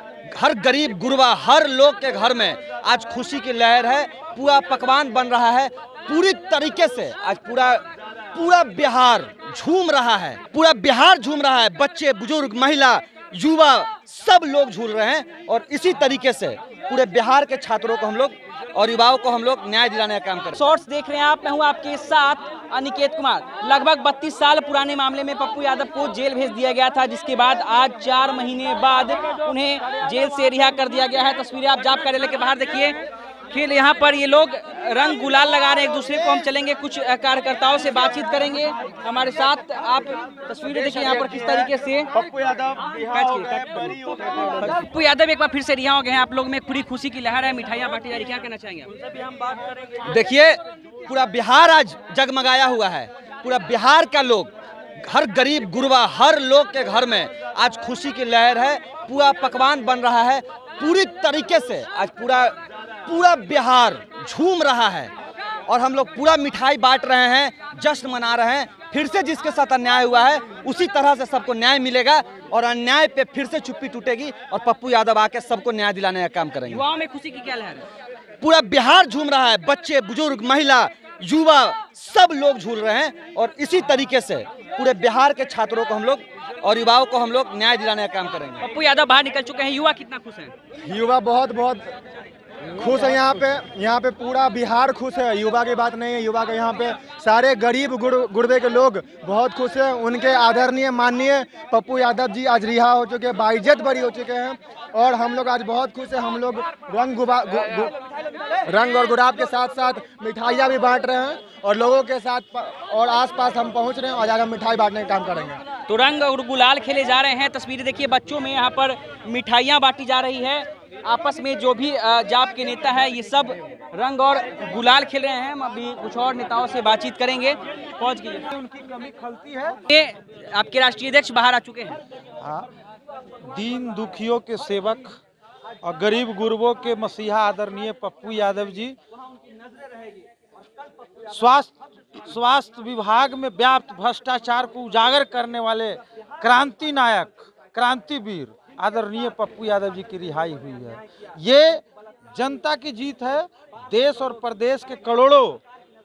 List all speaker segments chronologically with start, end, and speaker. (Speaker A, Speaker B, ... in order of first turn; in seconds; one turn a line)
Speaker A: 0.3-20.6
Speaker B: 20.5-33.0
Speaker B: 33.5-42.1
Speaker C: 42.1-44.8
Speaker B: 43.1-43.9
Speaker B: 44.6-48.9
Speaker A: 50.0-65.1
Speaker A: 65.7-76.8
Speaker B: 76.7-77.9
Speaker A: 78.4-88.6
Speaker B: 88.6-90.5
Speaker D: 90.9-91.8
Speaker C: 92.7-93.0
Speaker D: 92.8-107.9
Speaker C: 94.2-94.8
Speaker C: 97.9-99.2
Speaker C: 100.2-101.6
Speaker C: 103.6-104.3
Speaker C: 106.7-107.8
Speaker D: 108.7-115.6
Speaker C: 108.7-109.1
Speaker C: 111.5-112.8
Speaker C: 113.4-115.5
Speaker B: 115.9-128.4
Speaker C: 128.5-129.8
Speaker B: 129.9-132.0
Speaker C: 132.4-132.7
Speaker C: 133.4-135.2
Speaker C: 135.8-139.0
Speaker C: 141.3-155.6